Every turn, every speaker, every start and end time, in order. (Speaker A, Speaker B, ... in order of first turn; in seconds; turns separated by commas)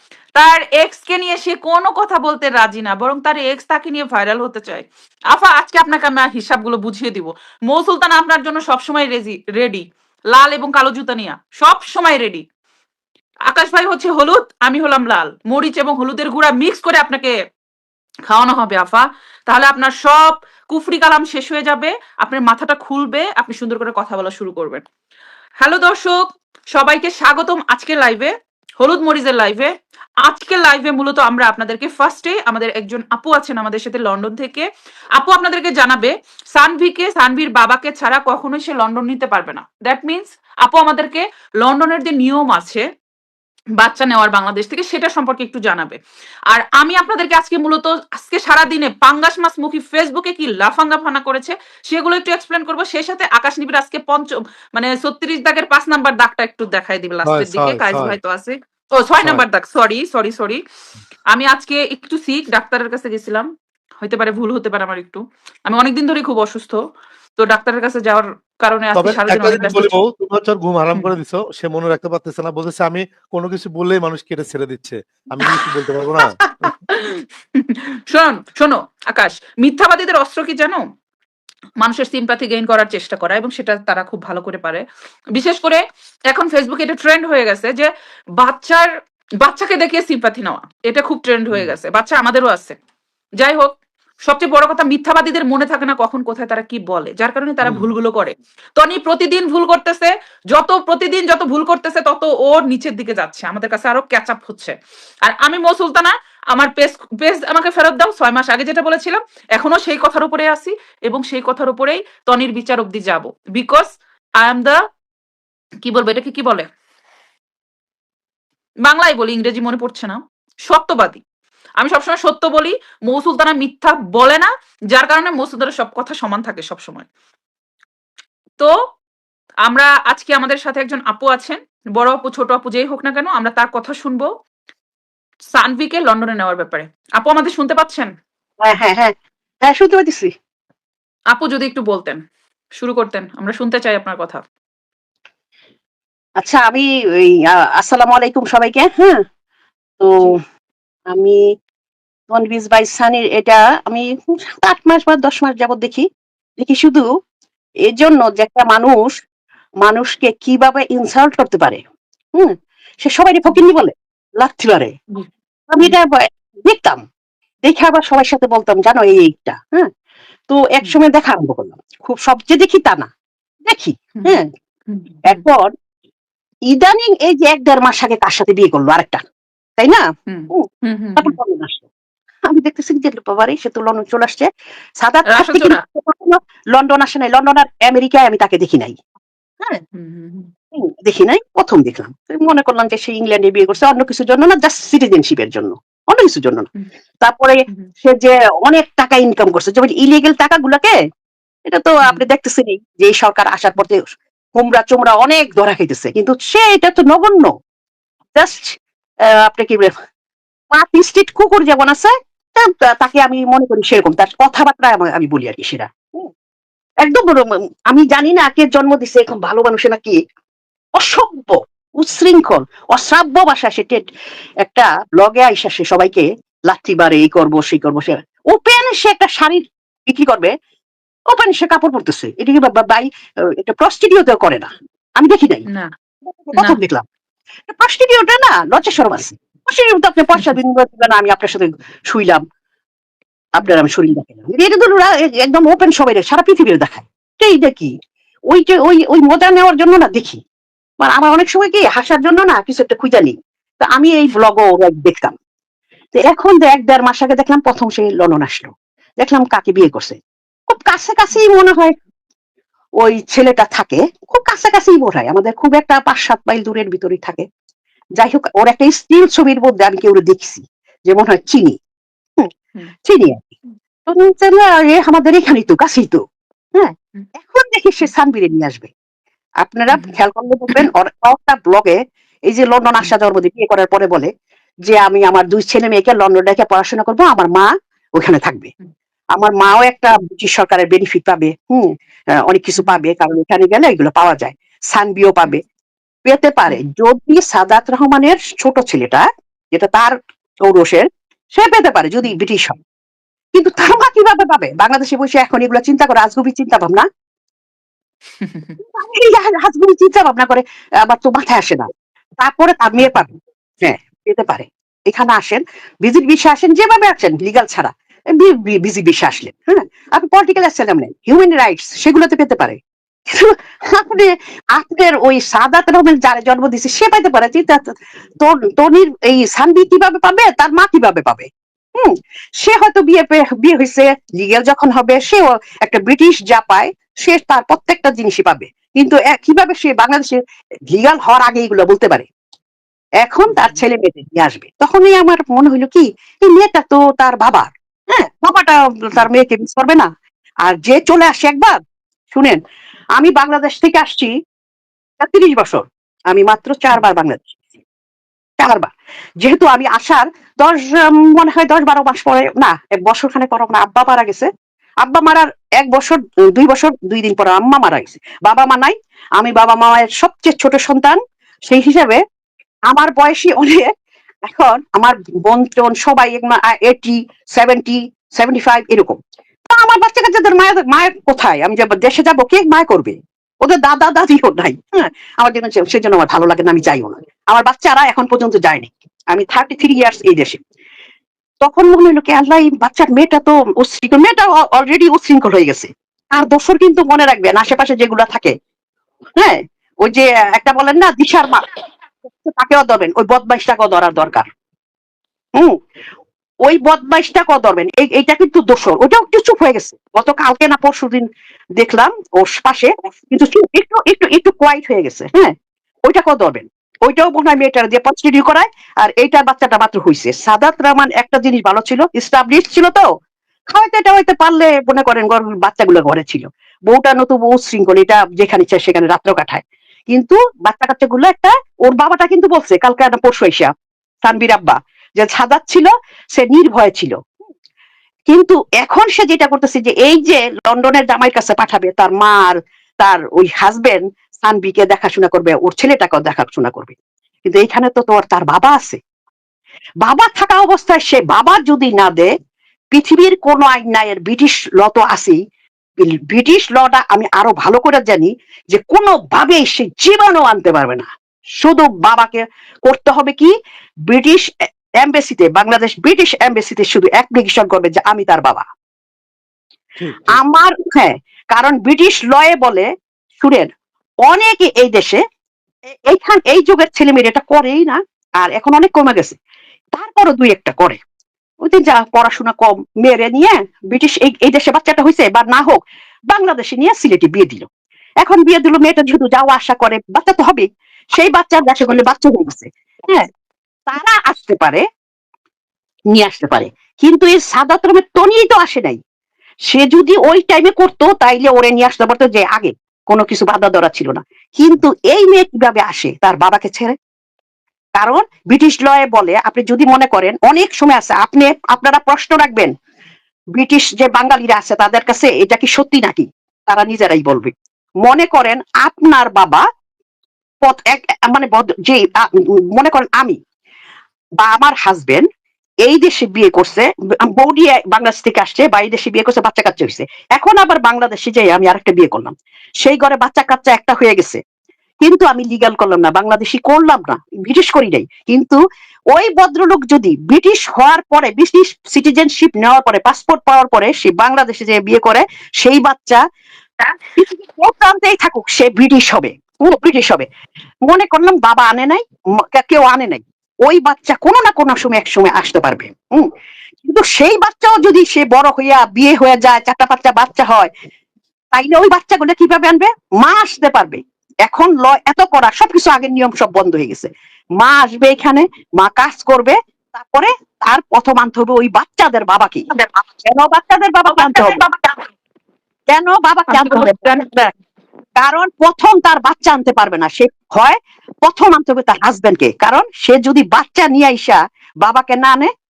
Speaker A: 0.4-12.4, Speaker A: 13.5-17.4, Speaker A: 18.3-24.8, Speaker A: 25.6-26.2, Speaker A: 26.7-29.7, Speaker A: 30.2-34.7, Speaker A: 35.2-42.9, Speaker A: 43.8-46.0, Speaker A: 46.5-60.6, Speaker B: 57.3-58.2, Speaker A: 61.3-63.5, Speaker A: 64.0-66.8, Speaker A: 67.4-70.0, Speaker B: 69.0-76.7, Speaker A: 76.5-80.8, Speaker A: 81.8-88.9, Speaker A: 89.4-92.8, Speaker A: 93.4-93.7, Speaker A: 94.3-104.8, Speaker B: 97.6-97.9, Speaker A: 105.3-113.9, Speaker A: 114.4-114.8, Speaker A: 115.8-116.7, Speaker A: 118.8-121.2, Speaker A: 121.8-127.1, Speaker A: 129.7-134.3, Speaker A: 135.5-138.1, Speaker C: 138.7-139.1, Speaker C: 139.7-140.3, Speaker A: 141.3-142.2, Speaker A: 142.8-144.4, Speaker C: 146.4-149.2, Speaker C: 150.0-150.4, Speaker C: 151.1-151.4, Speaker C: 152.3-156.1, Speaker C: 156.6-157.1, Speaker C: 157.9-159.2, Speaker C: 159.8-161.8, Speaker C: 162.4-164.9, Speaker C: 165.7-167.0, Speaker C: 167.7-169.9, Speaker C: 170.5-173.1, Speaker C: 173.7-174.4, Speaker A: 174.2-175.4, Speaker C: 175.3-175.7, Speaker C: 176.7-179.2, Speaker C: 179.8-180.7, Speaker A: 180.3-181.3, Speaker C: 181.2-181.8, Speaker C: 182.5-184.5, Speaker C: 185.0-189.0, Speaker A: 185.3-185.8, Speaker A: 189.9-190.5, Speaker C: 190.8-196.7, Speaker C: 197.2-200.9, Speaker C: 201.7-207.5, Speaker C: 208.4-208.8, Speaker C: 209.5-209.9, Speaker C: 210.7-216.3, Speaker C: 217.0-220.2, Speaker C: 221.0-224.0, Speaker C: 224.6-230.5, Speaker C: 231.3-233.1, Speaker C: 233.6-235.6, Speaker C: 236.5-237.1, Speaker C: 237.7-242.4, Speaker C: 243.6-247.9, Speaker C: 248.5-250.4, Speaker C: 251.0-255.3, Speaker C: 256.2-258.7, Speaker C: 259.2-260.2, Speaker C: 260.7-261.9, Speaker C: 263.0-267.4, Speaker C: 268.2-271.8, Speaker C: 273.1-273.5, Speaker C: 274.1-276.2, Speaker C: 276.8-278.9, Speaker C: 279.6-284.3, Speaker C: 284.9-288.7, Speaker C: 289.4-291.9, Speaker C: 292.5-295.6, Speaker C: 296.3-300.1, Speaker C: 300.6-301.0, Speaker C: 301.6-302.8, Speaker C: 303.6-307.0, Speaker A: 308.4-308.8, Speaker C: 308.9-311.9, Speaker C: 312.4-322.8, Speaker C: 323.3-327.8, Speaker C: 328.4-331.5, Speaker C: 332.0-340.4, Speaker C: 340.9-342.3, Speaker C: 343.2-350.1, Speaker A: 343.5-343.8, Speaker C: 350.7-351.8, Speaker C: 352.3-352.6, Speaker C: 353.2-354.3, Speaker C: 355.2-357.6, Speaker C: 358.6-358.9, Speaker C: 359.4-364.5, Speaker C: 365.0-372.2, Speaker C: 372.9-373.9, Speaker C: 374.5-379.2, Speaker C: 379.7-390.6, Speaker C: 391.6-398.5, Speaker C: 399.4-401.6, Speaker C: 402.3-404.5, Speaker C: 406.7-411.2, Speaker C: 411.8-415.5, Speaker C: 416.1-423.0, Speaker C: 423.7-433.7, Speaker C: 434.2-437.1, Speaker C: 438.3-449.0, Speaker C: 450.0-452.3, Speaker C: 452.9-455.4, Speaker C: 456.0-461.1, Speaker C: 461.6-463.5, Speaker C: 464.1-464.5, Speaker C: 465.0-468.6, Speaker B: 470.0-470.4, Speaker C: 470.3-472.9, Speaker C: 473.4-473.7, Speaker C: 474.3-475.2, Speaker C: 476.1-479.4, Speaker C: 479.9-481.0, Speaker C: 481.6-485.8, Speaker C: 486.3-487.7, Speaker C: 488.2-490.6, Speaker C: 491.2-493.3, Speaker C: 493.9-494.8, Speaker C: 496.1-499.0, Speaker C: 499.7-506.9, Speaker C: 508.0-512.7, Speaker C: 513.6-517.5, Speaker C: 518.0-519.6, Speaker C: 520.6-522.2, Speaker C: 522.8-523.4, Speaker C: 524.4-525.2, Speaker C: 525.8-534.4, Speaker C: 535.0-538.6, Speaker C: 539.1-546.2, Speaker C: 547.1-550.3, Speaker C: 550.9-556.3, Speaker C: 556.8-560.7, Speaker C: 561.5-572.7, Speaker C: 573.2-574.6, Speaker A: 574.1-575.0, Speaker C: 575.9-577.2, Speaker A: 576.5-577.5, Speaker C: 578.2-585.5